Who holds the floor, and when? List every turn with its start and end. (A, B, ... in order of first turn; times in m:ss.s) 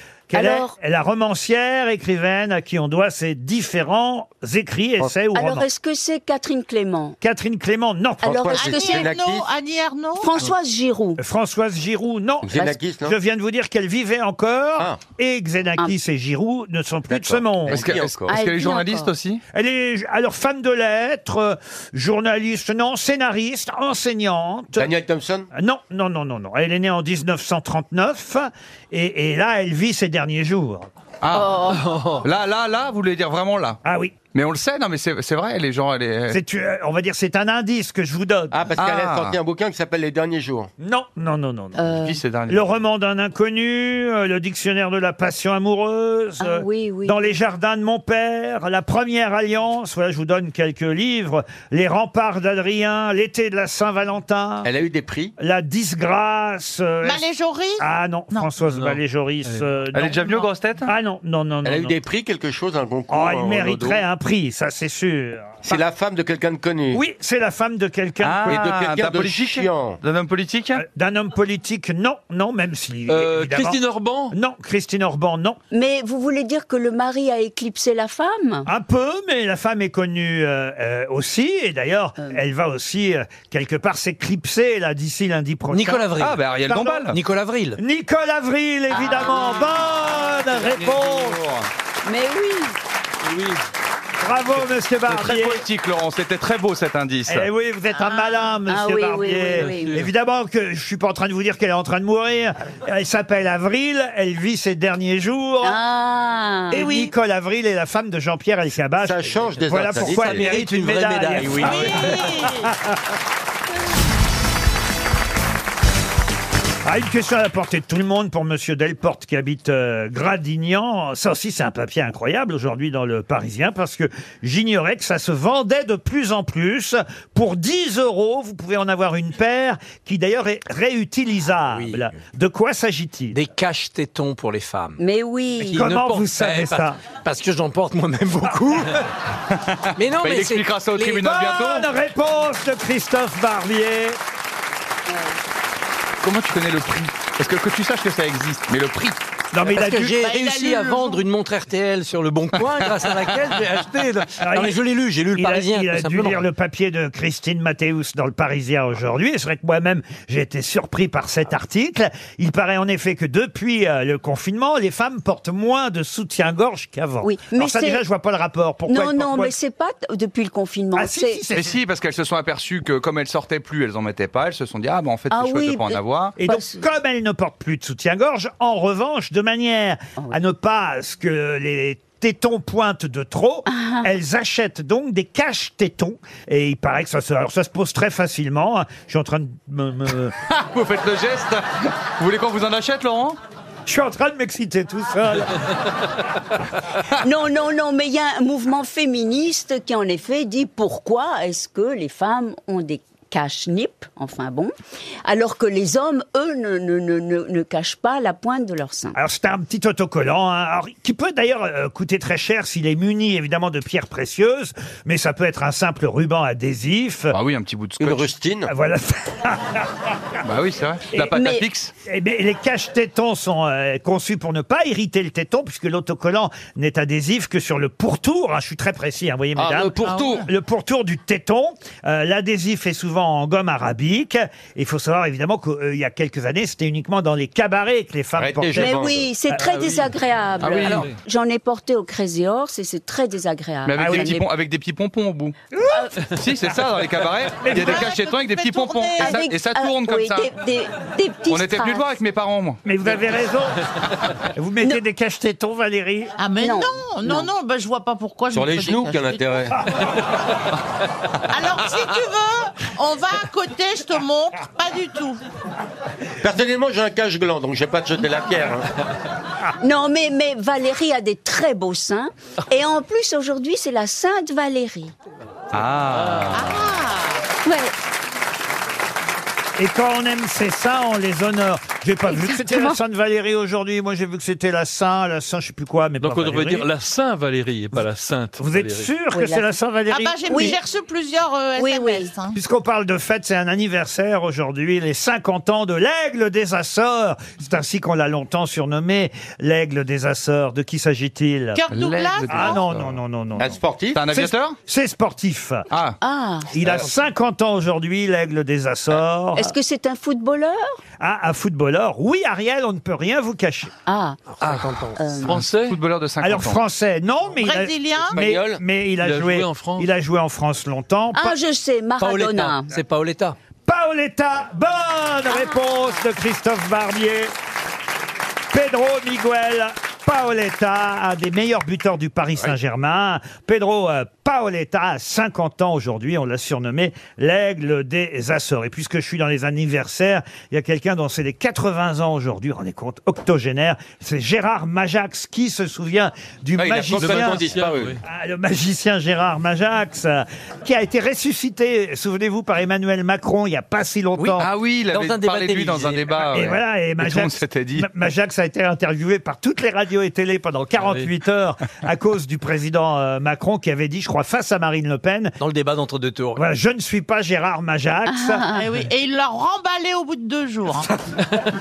0:00.3-0:05.6 A
0:00.3-0:00.7 B
0:05.3-0:07.2 B
0:07.2-0:08.5 A
0:08.2-0:09.0 B
0:08.2-0:09.5 C
0:08.5-0:10.3 D
0:10.2-0:11.2 B
0:11.2-0:17.9 A
0:12.4-0:13.1 C
0:17.1-0:18.4 C
0:17.7-0:19.4 E
0:18.3-0:19.1 B
0:19.5-0:24.9 A
0:24.8-0:25.5 C
0:25.5-0:30.9 A
0:31.2-0:31.6 E
0:31.3-0:31.8 B
0:31.7-0:32.2 F
0:32.2-0:33.8 E
0:33.8-0:34.2 A
0:34.3-0:36.4 E
0:36.3-0:38.6 A
0:38.5-0:40.7 C
0:38.8-0:39.4 E
0:40.8-0:41.8 A
0:41.8-0:42.2 B
0:42.0-0:42.7 E
0:42.5-0:54.7 A
0:46.4-0:47.3 B
0:54.6-0:55.3 C
0:55.4-0:57.2 A
0:57.0-0:58.5 D
0:57.8-1:01.9 A
0:59.9-1:00.9 E
1:01.6-1:04.0 C
1:03.1-1:05.8 A
1:05.6-1:07.0 C
1:06.9-1:08.6 A
1:08.2-1:10.8 E
1:08.5-1:10.0 C
1:10.7-1:13.8 A
1:13.1-1:14.3 F
1:14.3-1:15.6 A
1:15.7-1:18.7 B
1:18.6-1:27.0 A
1:25.7-1:26.5 G
1:26.2-1:27.2 E
1:27.1-1:27.8 G
1:27.8-1:31.4 A
1:28.9-1:29.8 B
1:30.5-1:31.7 E
1:32.0-1:32.8 B
1:33.2-1:33.6 F
1:34.2-1:35.6 A
1:35.1-1:37.5 E
1:37.3-1:45.8 A
1:38.7-1:40.0 B
1:39.6-1:40.1 F
1:45.6-1:46.9 B
1:46.7-1:53.0 A
1:46.8-1:47.1 D
1:49.0-1:50.5 C
1:49.9-1:52.2 G
1:51.5-1:52.7 D
1:56.8-2:13.4 A
2:11.7-2:12.2 G
2:13.3-2:15.0 G
2:15.0-2:15.9 B
2:15.6-2:17.0 A
2:15.6-2:19.1 G
2:19.5-2:21.8 E
2:20.0-2:21.0 G
2:21.0-2:24.2 A
2:25.1-2:25.4 B
2:26.2-2:29.2 E
2:29.5-2:30.3 A
2:29.6-2:36.4 G
2:30.1-2:31.2 D
2:34.4-2:34.8 A
2:35.3-2:49.5 A
2:47.2-2:48.0 B
2:48.9-2:51.4 B
2:50.9-2:51.8 A
2:51.5-2:56.4 E
2:55.3-2:56.8 B
2:56.4-3:10.3 A
3:03.7-3:04.1 B
3:10.5-3:13.4 E
3:13.8-3:15.7 A
3:17.2-3:24.7 B
3:25.2-3:29.2 B
3:29.1-3:37.3 A
3:37.3-3:38.3 E
3:38.0-3:38.7 C
3:38.7-3:39.9 A
3:40.4-3:41.9 E
3:41.1-3:41.7 B
3:42.0-3:59.0 A
3:49.6-3:50.4 C
3:50.0-3:50.4 D
3:58.4-3:59.3 C
3:58.8-4:04.4 B
4:00.6-4:01.1 E
4:03.8-4:05.6 E
4:04.0-4:04.4 A
4:05.7-4:06.1 A
4:06.2-4:10.5 E
4:07.6-4:08.1 A
4:07.7-4:09.4 D
4:09.2-4:12.1 B
4:11.5-4:12.8 E
4:12.8-4:13.8 A
4:14.5-4:16.3 A
4:16.4-4:19.7 D
4:16.6-4:17.5 B
4:18.5-4:19.8 C
4:21.5-4:25.4 D
4:26.4-4:28.9 C
4:29.8-4:35.1 B
4:35.7-4:36.8 E
4:36.5-4:37.4 D
4:37.6-4:37.9 B
4:39.8-4:46.9 A
4:42.3-4:43.0 B
4:46.2-4:49.1 F
4:48.6-4:50.7 A
4:49.3-4:49.7 B
4:50.1-4:52.6 D
4:50.5-4:50.8 B
4:51.8-4:52.3 B
4:52.5-5:01.8 A
5:01.7-5:02.8 D
5:01.9-5:03.2 E
5:02.5-5:03.8 A
5:03.6-5:04.2 C
5:04.1-5:04.8 E
5:04.3-5:05.8 A
5:05.9-5:06.2 E
5:06.2-5:06.7 B
5:06.7-5:09.7 A
5:09.6-5:11.0 B
5:11.2-5:13.9 A
5:14.0-5:14.4 B
5:14.5-5:15.4 G
5:14.6-5:15.0 E
5:15.2-5:15.6 B
5:15.4-5:16.0 F
5:15.5-5:16.8 E
5:16.4-5:21.6 A
5:17.6-5:18.4 D
5:18.3-5:18.8 C
5:19.2-5:20.1 F
5:21.3-5:22.9 B
5:22.2-5:23.6 G
5:23.8-5:27.5 A
5:28.7-5:47.7 A
5:46.8-5:48.2 C
5:47.2-5:48.2 F
5:48.2-5:54.7 A
5:54.4-5:56.6 G
5:54.6-5:58.1 E
5:56.5-6:05.6 A
6:01.0-6:01.3 F
6:05.6-6:06.6 G
6:06.6-6:08.6 A
6:08.3-6:08.8 B
6:08.7-6:11.1 D